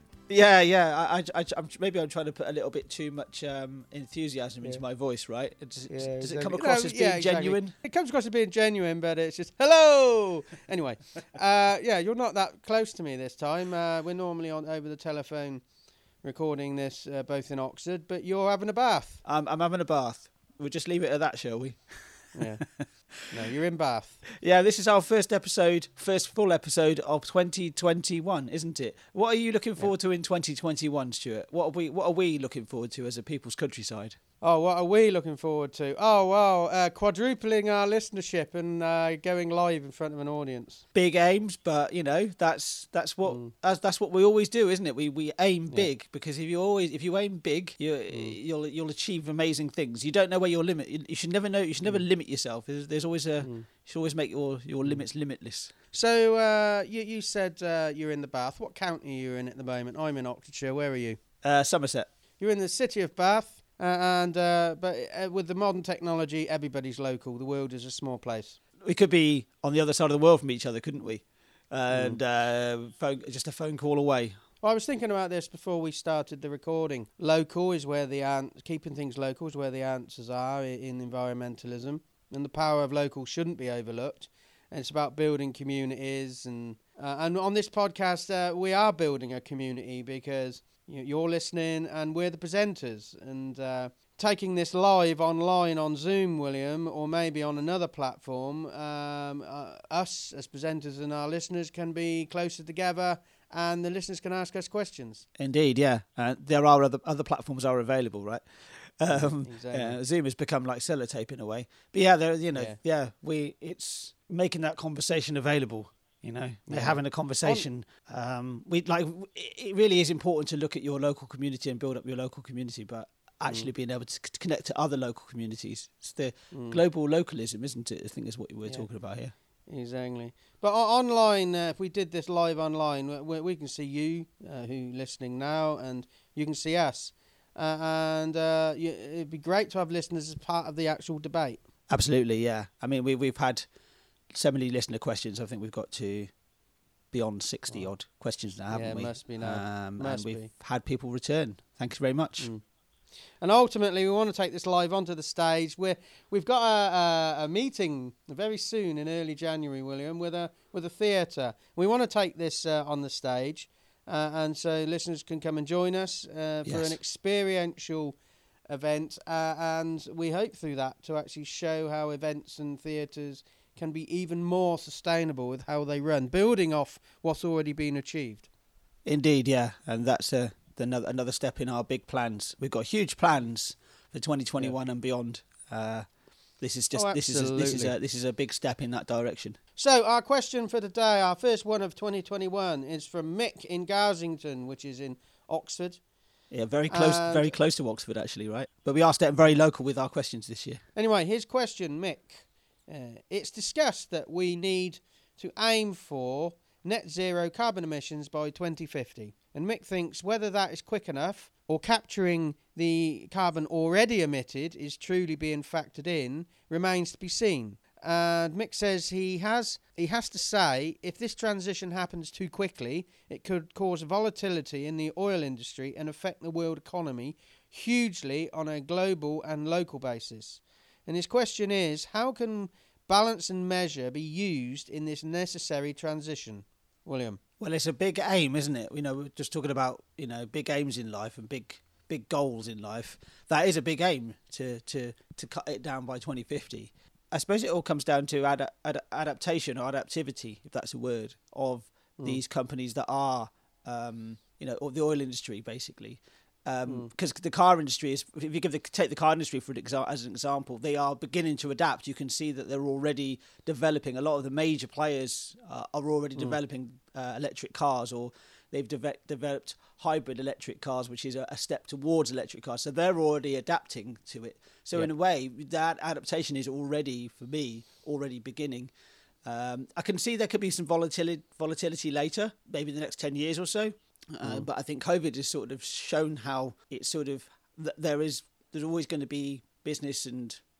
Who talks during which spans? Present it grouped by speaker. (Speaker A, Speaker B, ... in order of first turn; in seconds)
Speaker A: 0.3-7.7, 19.2-22.9, 24.4-34.2, 40.9-55.7, 61.4-62.1, 68.8-74.4, 105.4-129.3, 141.9-143.7, 144.3-146.3, 147.1-152.5, 166.6-167.0, 179.0-186.1, 186.6-189.6, 196.5-200.8, 237.6-278.9, 279.4-290.6
Speaker B: 5.9-15.6, 16.2-19.2, 22.3-24.2, 34.4-40.8, 43.2-43.5, 48.1-48.4, 53.4-53.7, 55.9-61.2, 62.4-68.6, 71.9-72.2, 74.6-105.2, 109.1-110.0, 112.5-112.8, 116.7-117.7, 126.5-126.8, 129.7-141.6, 148.7-150.5, 153.4-168.2, 168.7-178.5, 186.9-187.9, 189.8-196.0, 196.9-197.5, 200.9-237.4, 284.4-284.7